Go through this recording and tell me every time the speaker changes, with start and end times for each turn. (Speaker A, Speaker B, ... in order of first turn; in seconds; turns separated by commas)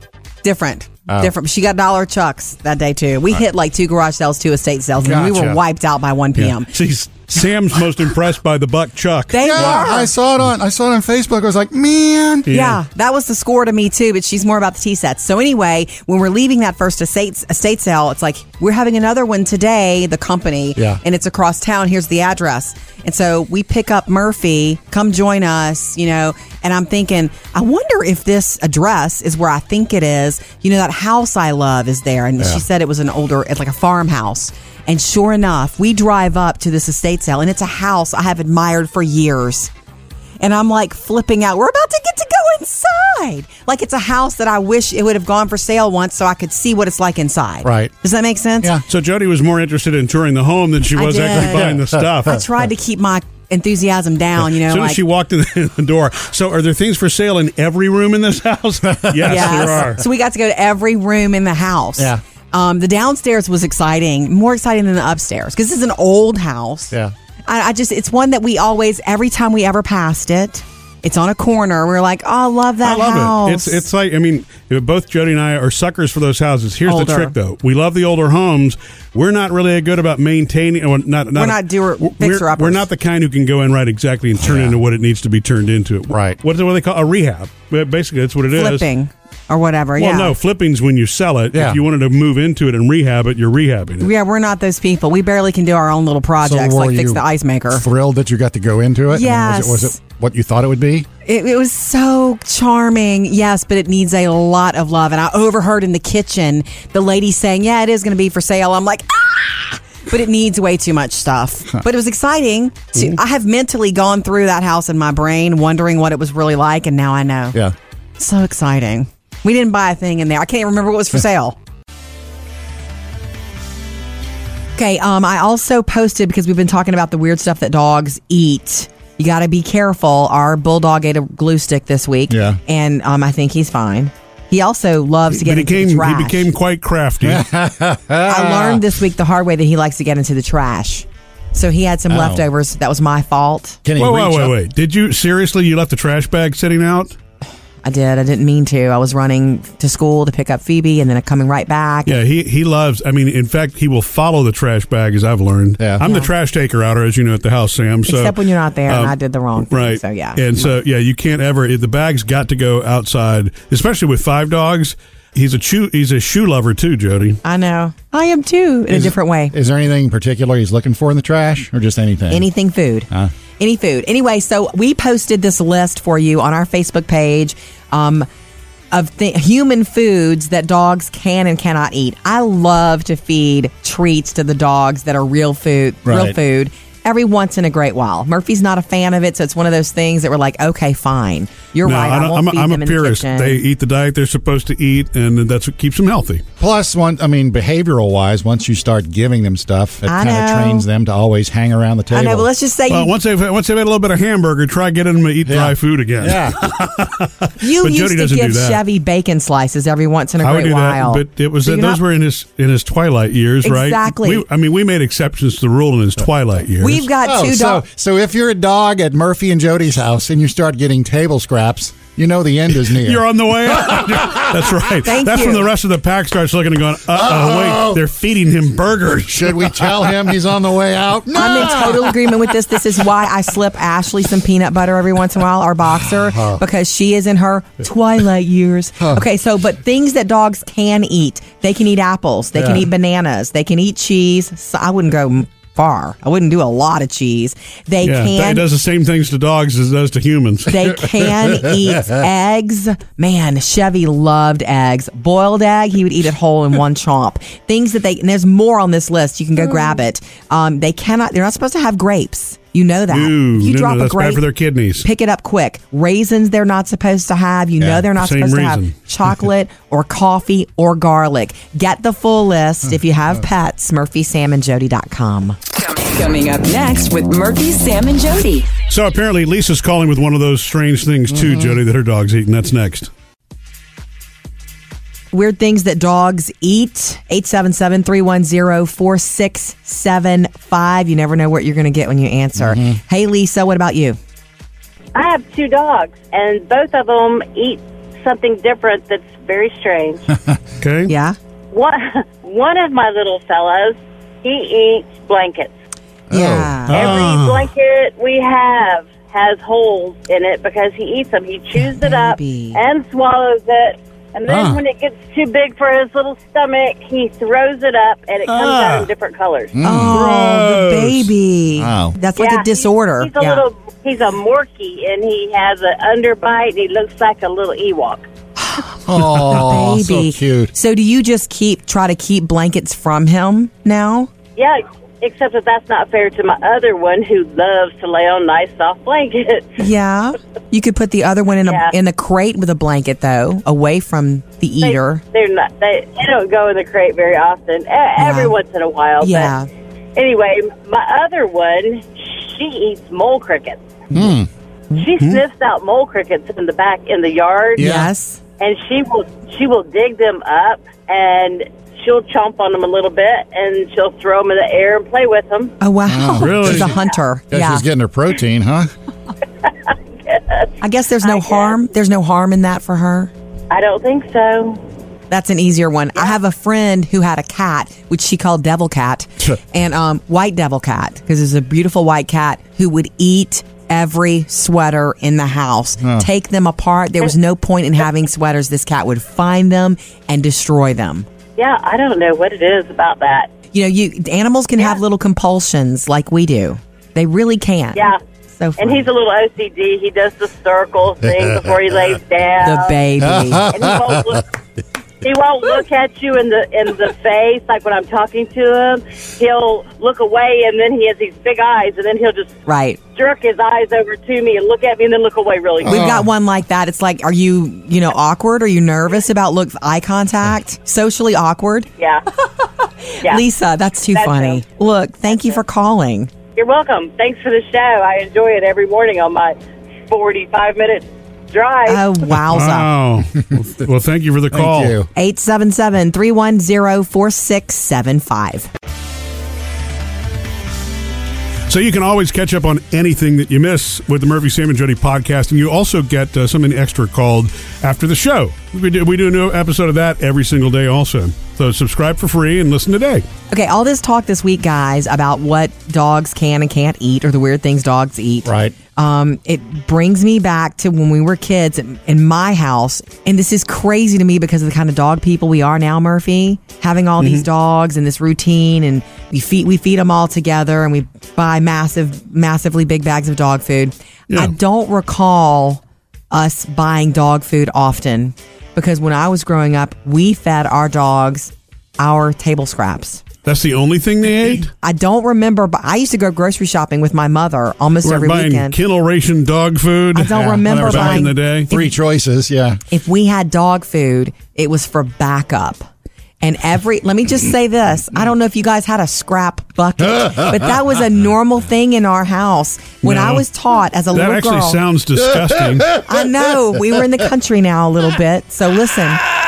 Speaker A: 0.4-6.7, Speaker B: 5.0-5.6, Speaker C: 6.5-9.8, Speaker A: 9.3-10.1, Speaker B: 9.4-12.5, Speaker C: 12.4-12.8, Speaker A: 12.5-39.7, Speaker B: 20.8-21.0, Speaker A: 40.4-48.7, Speaker B: 47.6-47.9, Speaker C: 48.9-52.4, Speaker A: 50.9-55.0, Speaker B: 51.4-52.0, Speaker C: 54.4-60.0, Speaker B: 58.9-59.9, Speaker A: 59.2-66.9, Speaker A: 67.5-73.8, Speaker C: 72.8-88.9, Speaker A: 76.9-77.3, Speaker A: 81.3-82.8, Speaker B: 84.4-84.8, Speaker B: 86.1-86.4, Speaker A: 88.5-90.3, Speaker C: 90.0-94.1, Speaker B: 91.5-91.8, Speaker A: 94.0-97.8, Speaker B: 96.4-101.1, Speaker A: 99.1-100.0, Speaker A: 101.2-117.6, Speaker A: 118.2-121.6, Speaker A: 124.8-136.5, Speaker B: 132.3-132.6, Speaker C: 135.3-137.4, Speaker B: 137.2-138.9, Speaker A: 138.2-143.8, Speaker B: 142.1-142.4, Speaker B: 143.8-144.5, Speaker C: 144.0-147.2, Speaker A: 147.8-152.2, Speaker C: 152.1-167.4, Speaker A: 156.0-156.3, Speaker A: 158.1-160.4, Speaker A: 167.4-169.5, Speaker B: 168.9-172.4, Speaker A: 172.3-178.3, Speaker A: 178.9-193.6, Speaker B: 186.0-186.3, Speaker C: 191.8-196.4, Speaker B: 196.6-202.5, Speaker A: 200.0-200.8, Speaker A: 202.1-203.1, Speaker C: 202.9-208.8, Speaker B: 205.4-206.7, Speaker A: 207.6-212.0, Speaker C: 210.4-217.1, Speaker A: 213.6-214.4, Speaker A: 216.8-217.8, Speaker B: 217.2-224.8, Speaker C: 222.8-230.1, Speaker A: 225.0-225.7, Speaker B: 227.1-228.0, Speaker B: 229.3-232.5, Speaker A: 231.3-248.7, Speaker B: 236.1-236.6, Speaker B: 242.6-242.9, Speaker C: 248.0-251.0, Speaker A: 250.7-264.4, Speaker B: 251.5-252.2, Speaker C: 263.1-265.1, Speaker A: 265.0-275.6, Speaker C: 268.0-268.9, Speaker D: 275.8-278.7, Speaker A: 276.7-277.8, Speaker C: 278.9-283.1, Speaker B: 281.3-281.8, Speaker A: 285.3-294.2, Speaker B: 292.6-293.0, Speaker E: 295.1-300.2, Speaker B: 300.3-300.6, Speaker C: 300.8-301.1, Speaker A: 301.1-301.4, Speaker E: 301.7-305.7, Speaker B: 306.3-307.2, Speaker A: 306.3-307.1, Speaker C: 306.9-307.7, Speaker E: 306.9-319.8, Speaker A: 312.0-312.8, Speaker C: 314.5-314.8, Speaker C: 318.4-319.1, Speaker B: 319.7-320.2, Speaker A: 319.8-323.6, Speaker C: 320.1-321.3, Speaker B: 321.8-322.1, Speaker E: 322.4-328.3, Speaker A: 328.6-334.3, Speaker B: 329.1-330.7, Speaker E: 334.6-339.7, Speaker A: 339.8-345.2, Speaker E: 341.6-341.9, Speaker E: 344.8-349.5, Speaker A: 348.2-348.5, Speaker A: 349.2-349.6, Speaker E: 350.1-353.8, Speaker B: 354.1-354.5, Speaker E: 354.9-357.9, Speaker B: 357.8-358.1, Speaker A: 357.8-358.4, Speaker E: 358.6-365.7, Speaker A: 365.8-367.8, Speaker B: 366.1-366.9, Speaker C: 366.4-367.0, Speaker B: 367.5-368.9, Speaker E: 369.6-371.8, Speaker A: 370.8-373.3, Speaker E: 373.7-374.8, Speaker A: 375.3-391.2, Speaker B: 386.0-386.3, Speaker E: 391.6-393.5, Speaker A: 393.7-399.0, Speaker E: 397.9-398.2, Speaker E: 398.8-403.0, Speaker B: 401.4-401.8, Speaker A: 402.6-403.7, Speaker B: 403.2-404.4, Speaker E: 403.6-404.6, Speaker E: 405.2-412.5, Speaker A: 412.6-413.0, Speaker E: 413.1-416.1, Speaker A: 415.8-421.9, Speaker B: 415.8-416.3, Speaker E: 422.0-422.2, Speaker A: 422.4-426.3, Speaker E: 424.1-424.6, Speaker E: 426.6-429.6, Speaker E: 430.1-432.0, Speaker A: 431.9-432.9, Speaker C: 432.3-434.9, Speaker B: 434.5-435.1, Speaker A: 435.1-438.7, Speaker C: 441.7-453.2, Speaker A: 453.5-483.2, Speaker B: 458.4-458.8, Speaker C: 467.2-467.4, Speaker C: 483.4-484.7, Speaker A: 484.8-488.8, Speaker C: 488.0-491.7, Speaker A: 490.1-491.9, Speaker B: 490.3-492.8, Speaker A: 492.9-495.9, Speaker A: 496.4-504.8, Speaker C: 503.0-503.4, Speaker C: 504.1-506.0, Speaker A: 506.0-509.2